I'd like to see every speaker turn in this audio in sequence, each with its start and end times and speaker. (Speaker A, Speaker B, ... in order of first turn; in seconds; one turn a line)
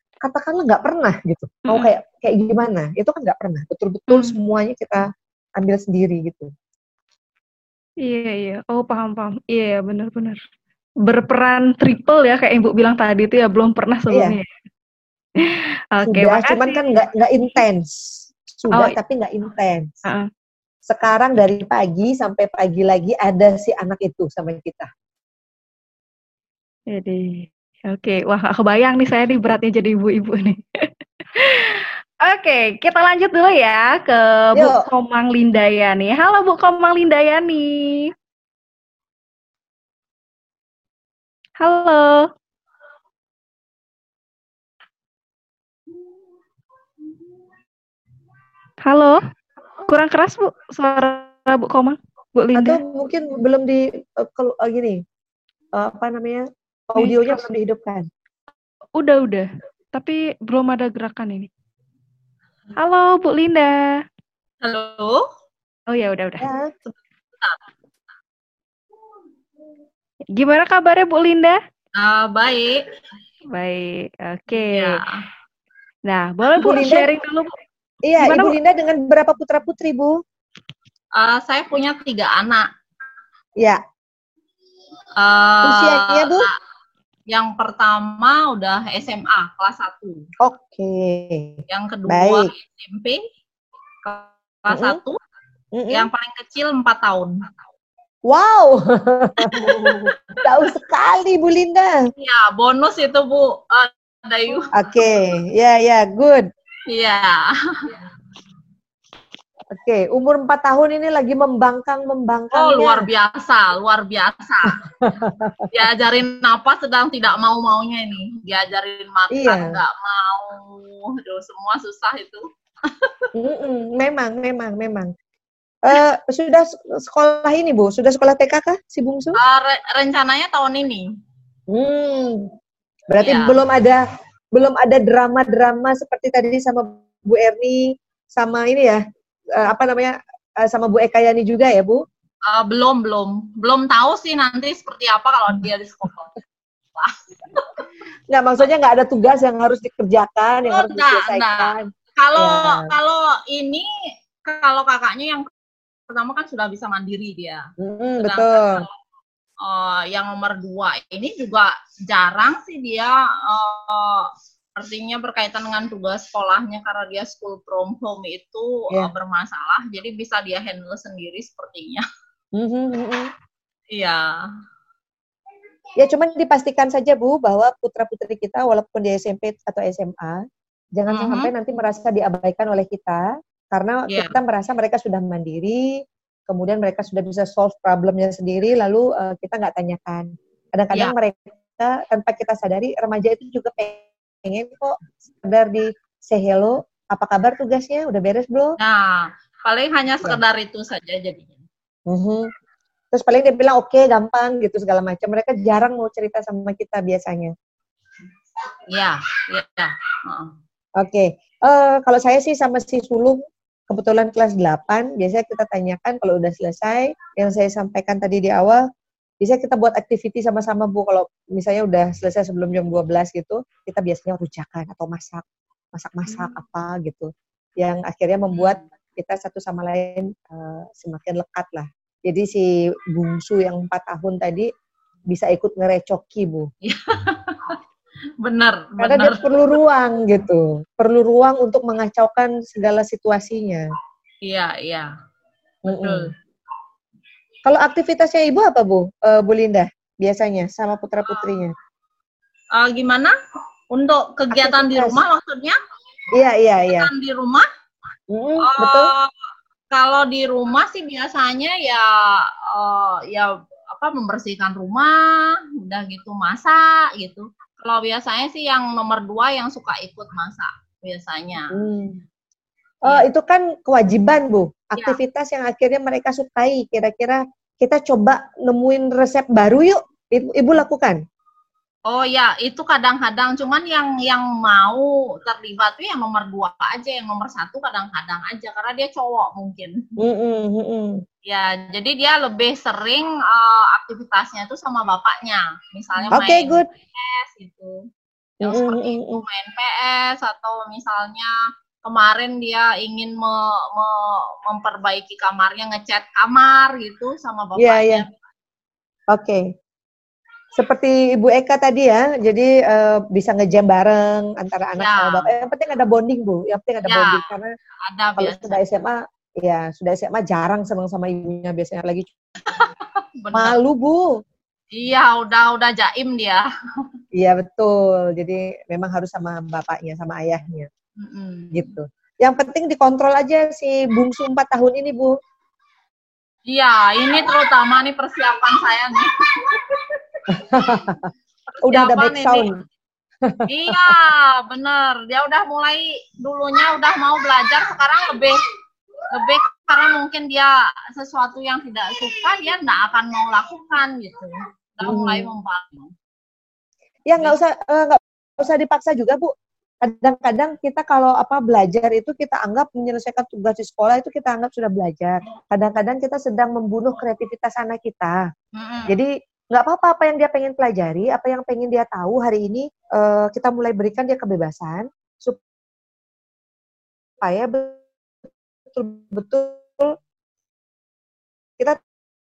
Speaker A: 0.2-6.5
Speaker B: 4.1-4.3
Speaker B: 8.0-10.4
Speaker B: 11.1-14.4
Speaker A: 14.1-14.4
Speaker B: 15.4-16.8
Speaker A: 16.1-17.9
Speaker A: 18.6-19.9
Speaker A: 20.9-24.9
Speaker B: 26.9-38.1
Speaker B: 41.6-42.3
Speaker B: 48.9-49.2
Speaker B: 49.8-52.8
Speaker A: 52.5-55.0
Speaker A: 55.8-58.1
Speaker B: 57.0-57.5
Speaker B: 59.0-61.5
Speaker B: 62.8-63.8
Speaker C: 64.6-65.3
Speaker B: 65.9-66.5
Speaker A: 66.4-66.7
Speaker B: 70.3-71.6
Speaker C: 72.0-72.8
Speaker B: 73.5-75.0
Speaker C: 74.6-75.2
Speaker B: 76.0-77.6
Speaker A: 76.5-77.1
Speaker A: 78.1-80.2
Speaker B: 78.2-78.5
Speaker C: 81.2-82.7
Speaker C: 85.2-86.5
Speaker A: 85.6-86.5
Speaker C: 87.3-90.3
Speaker A: 90.4-92.5
Speaker C: 91.7-93.2
Speaker C: 94.0-95.2
Speaker A: 94.7-95.0
Speaker A: 95.7-96.1
Speaker C: 95.9-97.4
Speaker A: 98.3-99.9
Speaker C: 99.5-100.4
Speaker A: 100.4-101.9
Speaker C: 102.2-104.7
Speaker A: 104.8-106.4
Speaker C: 106.9-108.0
Speaker A: 109.7-113.0
Speaker C: 112.5-114.8
Speaker A: 115.0-115.8
Speaker C: 115.7-123.3
Speaker A: 119.3-119.7
Speaker A: 123.4-125.1
Speaker A: 125.8-129.4
Speaker C: 129.4-131.1
Speaker A: 131.7-132.5
Speaker A: 133.1-134.0
Speaker C: 133.2-133.6
Speaker A: 134.5-139.0
Speaker A: 139.5-142.0
Speaker C: 142.5-146.3
Speaker C: 146.9-147.8
Speaker A: 148.3-152.9
Speaker C: 150.7-153.9
Speaker C: 154.4-155.5
Speaker C: 156.1-157.6
Speaker A: 157.8-158.9
Speaker C: 158.2-158.9
Speaker C: 159.6-172.0
Speaker A: 172.6-173.3
Speaker C: 173.9-174.4
Speaker A: 176.0-180.4
Speaker A: 180.9-198.7
Speaker C: 181.1-181.5
Speaker C: 184.1-184.3
Speaker C: 198.8-201.6
Speaker A: 202.1-202.5
Speaker A: 203.1-207.5
Speaker C: 208.9-210.5
Speaker A: 211.0-213.4
Speaker A: 213.9-218.8
Speaker A: 219.4-234.7
Speaker C: 228.6-228.8
Speaker A: 235.3-236.7
Speaker C: 236.9-237.8
Speaker C: 238.4-239.7
Speaker A: 239.0-243.8
Speaker C: 244.4-245.1
Speaker C: 245.9-246.3
Speaker A: 245.9-246.3
Speaker A: 247.6-251.7
Speaker C: 252.7-253.3
Speaker C: 253.9-255.8
Speaker A: 254.5-255.2
Speaker A: 256.4-257.1
Speaker C: 256.9-257.7
Speaker A: 258.3-259.1
Speaker C: 258.6-259.3
Speaker C: 259.9-271.7
Speaker A: 271.7-272.2
Speaker A: 273.1-281.2
Speaker C: 282.1-289.9
Speaker A: 290.2-291.2
Speaker C: 291.4-298.0
Speaker A: 296.3-296.9
Speaker C: 298.6-301.5
Speaker A: 298.6-299.4
Speaker C: 302.0-308.3
Speaker A: 307.8-308.2
Speaker A: 309.3-309.6
Speaker A: 310.7-317.7
Speaker C: 315.0-315.5
Speaker C: 317.1-317.5
Speaker C: 318.1-318.8
Speaker A: 318.4-322.3
Speaker C: 322.7-323.8
Speaker A: 323.5-324.3
Speaker C: 324.9-326.6
Speaker A: 327.4-330.9
Speaker C: 331.2-331.9
Speaker A: 331.7-335.3
Speaker C: 336.7-340.1
Speaker A: 340.5-341.3
Speaker C: 341.7-342.7
Speaker A: 341.9-342.7
Speaker A: 343.4-344.2
Speaker C: 343.7-348.6
Speaker C: 349.3-356.1
Speaker A: 355.0-355.5
Speaker A: 357.3-359.5
Speaker A: 360.0-368.4
Speaker C: 368.7-369.1
Speaker A: 369.1-375.6
Speaker A: 377.4-378.0
Speaker A: 378.9-380.1